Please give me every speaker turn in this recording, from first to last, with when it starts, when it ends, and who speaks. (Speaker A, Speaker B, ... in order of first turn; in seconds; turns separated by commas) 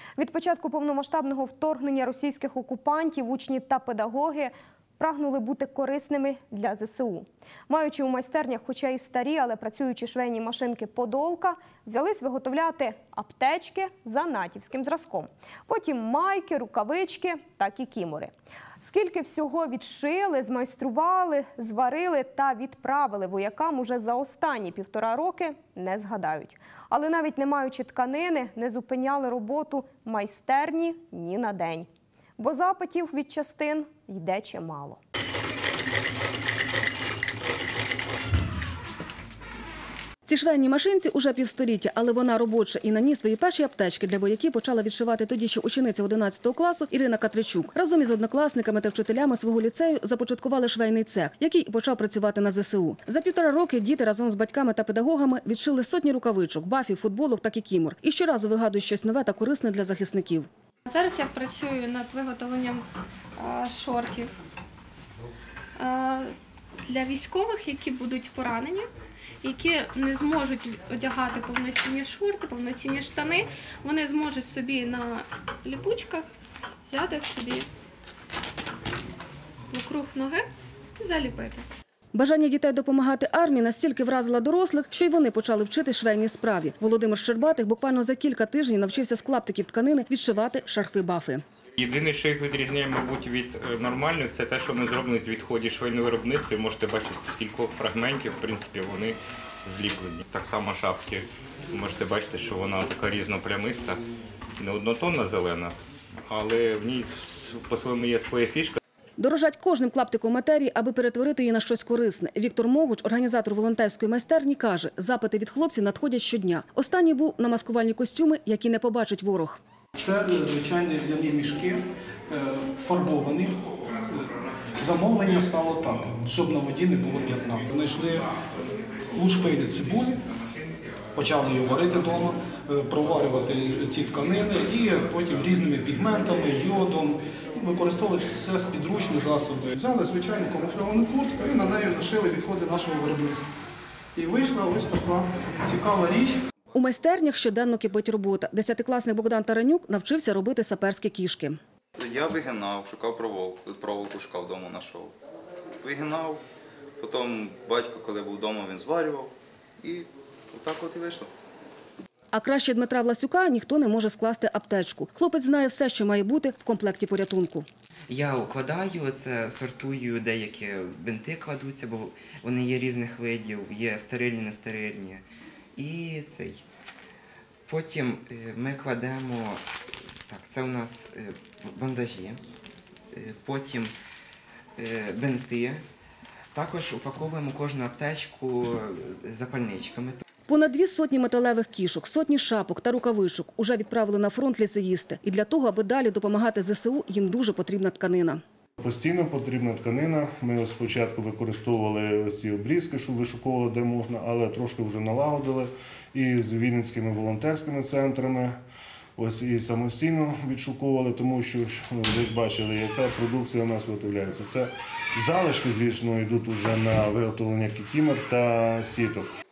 Speaker A: 0.2-35.0, Speaker B: 40.3-60.5, Speaker C: 60.9-62.9, Speaker C: 63.4-64.3, Speaker C: 65.8-66.3, Speaker C: 66.9-68.9, Speaker C: 69.4-76.3, Speaker C: 76.8-77.7, Speaker C: 79.7-80.5, Speaker C: 81.0-81.6, Speaker B: 82.1-91.4, Speaker D: 91.8-104.0, Speaker D: 104.6-105.8, Speaker D: 106.3-108.8, Speaker B: 109.2-119.6, Speaker E: 120.0-124.2, Speaker E: 124.8-128.3, Speaker E: 129.1-130.2, Speaker E: 131.1-143.5, Speaker E: 144.2-146.4, Speaker B: 146.8-151.6, Speaker F: 152.0-155.2, Speaker F: 155.8-156.4, Speaker F: 157.0-161.3, Speaker B: 162.3-167.7, Speaker G: 168.1-175.2, Speaker G: 175.8-176.6, Speaker G: 177.7-179.6, Speaker G: 180.3-182.4, Speaker G: 183.1-183.9, Speaker G: 184.8-185.8, Speaker G: 186.5-190.2, Speaker B: 190.5-198.4, Speaker H: 198.8-208.6, Speaker H: 209.2-219.3